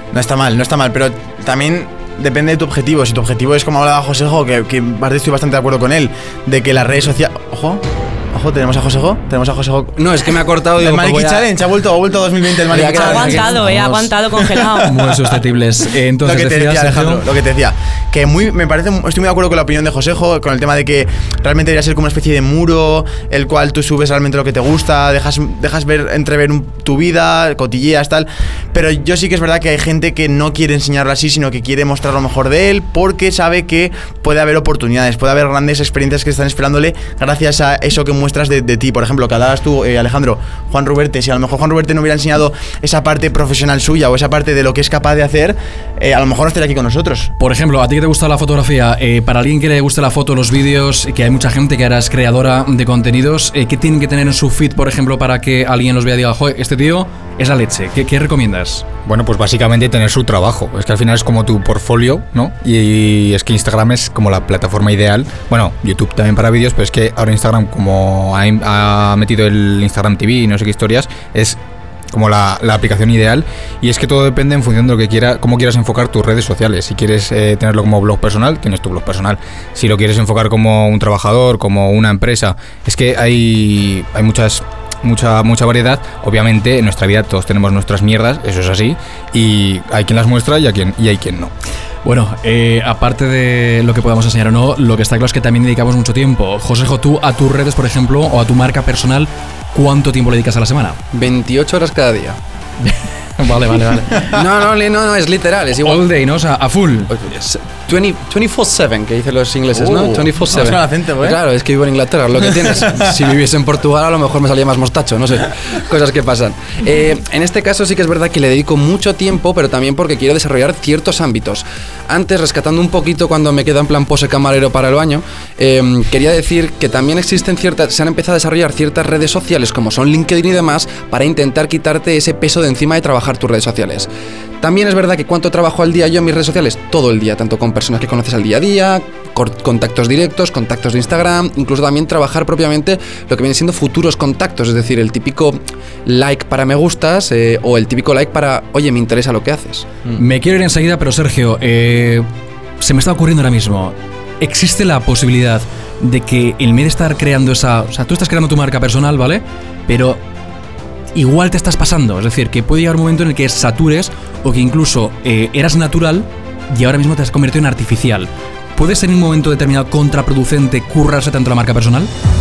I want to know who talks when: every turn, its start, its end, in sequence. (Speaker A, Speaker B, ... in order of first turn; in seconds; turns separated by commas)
Speaker A: 0.1-10.0, Speaker B: 9.9-11.4, Speaker A: 10.7-13.4, Speaker B: 12.7-13.6, Speaker C: 12.9-14.9, Speaker D: 13.5-14.1, Speaker D: 14.8-17.2, Speaker A: 15.0-15.3, Speaker A: 16.2-47.3, Speaker D: 47.4-58.8, Speaker E: 59.0-71.6, Speaker E: 72.1-91.5, Speaker D: 92.0-101.0, Speaker B: 101.1-102.4, Speaker D: 102.8-104.3, Speaker B: 104.3-106.0, Speaker D: 105.8-107.1, Speaker B: 107.1-134.1, Speaker A: 109.7-111.4, Speaker A: 112.6-113.0, Speaker B: 134.6-149.9, Speaker D: 150.2-152.2, Speaker D: 152.8-160.2, Speaker D: 161.1-172.1